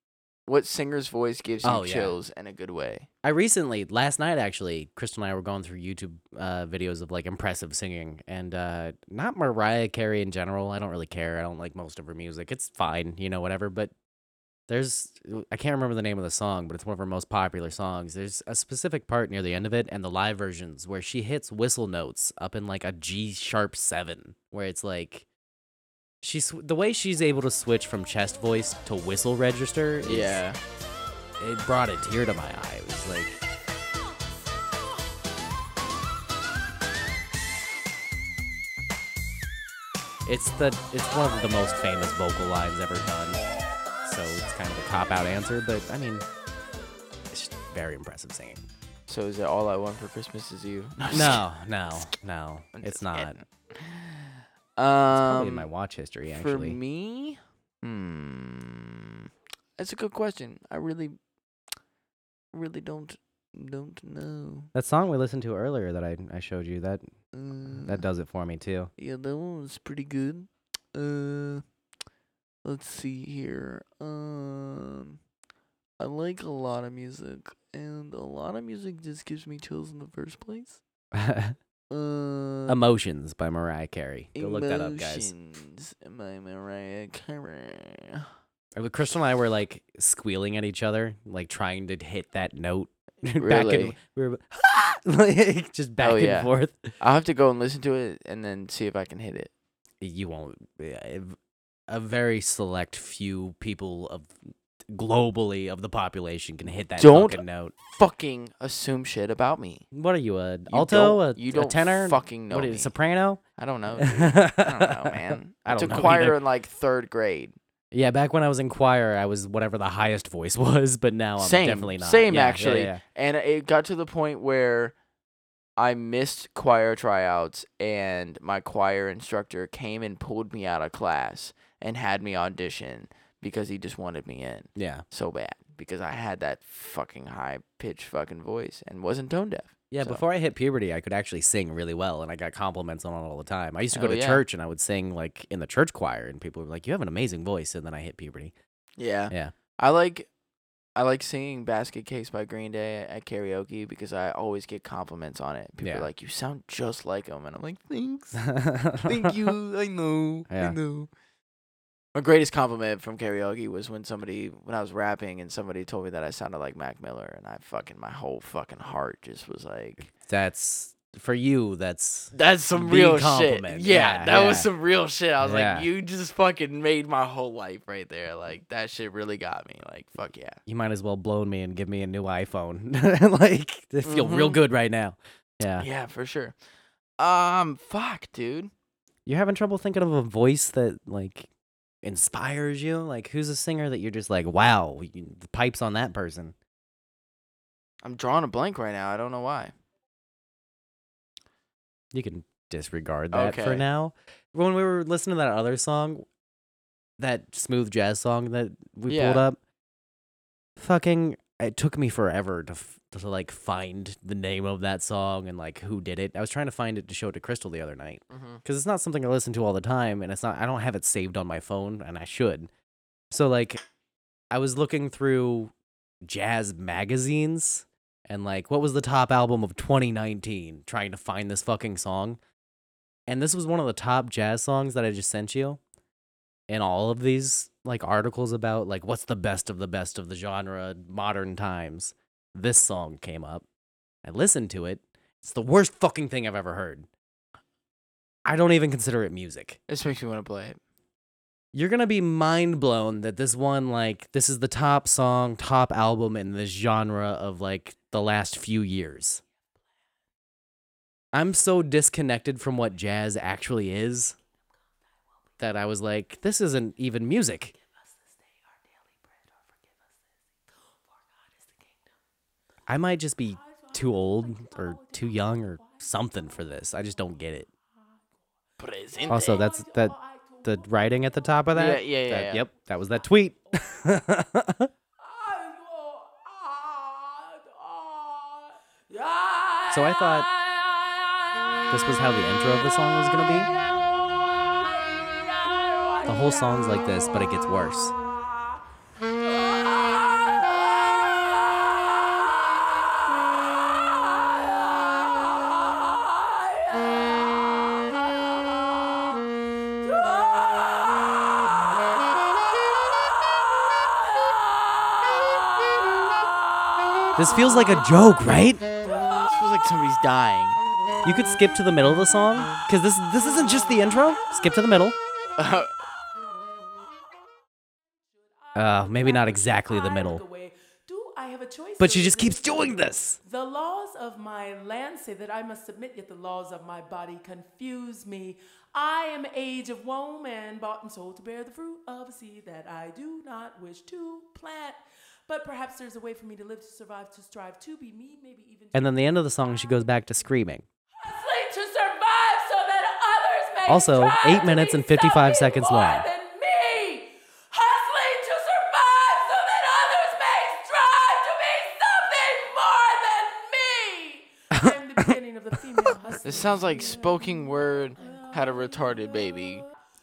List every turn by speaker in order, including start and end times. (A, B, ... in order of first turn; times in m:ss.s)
0:00.5-0:03.1 A
0:01.6-0:02.2 B
0:03.2-0:13.9 B
0:14.7-0:25.3 B
0:26.2-0:30.4 B
0:30.0-0:30.6 A
0:31.4-0:33.4 B
0:40.3-0:43.4 B
0:44.0-0:46.3 B
0:47.3-0:48.6 B
0:49.1-0:51.4 A
0:51.1-0:53.4 B
0:52.8-0:55.7 A
0:55.1-0:56.8 B
0:56.3-1:01.2 A
1:02.5-1:04.7 A
1:04.7-1:07.1 B
1:07.3-1:08.0 A
1:07.8-1:08.9 B
1:09.0-1:11.6 A
1:12.6-1:15.2 A
1:16.0-1:20.8 A
1:21.1-1:21.6 B
1:21.9-1:22.8 A
1:22.7-1:25.3 B
1:24.4-1:28.3 A
1:28.8-1:36.9 B
1:33.4-1:34.0 A
1:36.0-1:39.5 A
1:40.0-1:41.4 B
1:41.9-1:44.3 B
1:44.9-1:47.7 B
1:47.0-1:47.4 A
1:47.9-1:49.9 A
1:49.9-1:53.4 B
1:50.7-1:52.9 A
1:53.6-1:57.6 A
1:53.9-1:56.4 B
1:57.9-2:03.0 B
2:01.4-2:05.0 A
2:05.8-2:20.2 A
2:14.8-2:15.0 B
2:19.9-2:28.5 B
2:23.9-2:24.4 A
2:29.0-2:30.3 A
2:31.0-2:38.4 A
2:35.8-2:36.1 B
2:38.4-2:39.5 B
2:39.0-2:41.1 A
2:40.5-2:40.8 B
2:42.2-2:50.1 A
2:50.1-2:54.7 B
2:52.3-3:00.6 A
2:55.4-2:55.9 B
3:00.7-3:05.9 B
3:04.0-3:04.6 A
3:05.8-3:06.6 A
3:07.2-3:08.7 A
3:09.3-3:11.5 B
3:12.0-3:16.5 B
3:18.0-3:19.7 A
3:22.1-3:26.3 B
3:23.3-3:23.9 A
3:27.2-3:29.6 B
3:29.1-3:29.4 A
3:30.8-3:42.7 B
3:38.3-3:38.6 A
3:43.3-3:43.8 B
3:44.5-3:45.7 B
3:46.2-3:52.4 B
3:53.3-3:55.8 B
3:56.7-4:03.6 B
4:04.2-4:07.1 B
4:08.5-4:09.8 B
4:09.9-4:10.8 A
4:11.7-4:19.4 B
4:21.3-4:24.4 B
4:25.6-4:27.7 B
4:28.0-4:29.8 C
4:31.1-4:31.9 C
4:32.9-4:37.7 B
4:33.5-4:37.3 C
4:38.8-4:39.6 A
4:39.0-4:41.4 C
4:39.3-4:44.9 B
4:41.7-4:42.6 A
4:43.1-4:44.0 C
4:45.2-4:50.9 C
4:49.9-4:50.5 B
4:51.9-4:53.7 B
4:53.6-4:57.2 C
4:56.3-4:58.1 B
4:59.4-5:09.4 C
5:10.0-5:16.5 C
5:17.4-5:18.8 B
5:19.0-5:19.5 C
5:19.4-5:20.8 A
5:21.2-5:25.2 B
5:25.6-5:25.9 A
5:28.6-5:50.3 C
5:28.8-5:30.4 B
5:32.0-5:33.4 B
5:48.9-5:50.8 B
5:51.2-6:09.9 C
5:53.9-5:56.2 B
6:04.8-6:05.4 B
6:06.4-6:09.8 A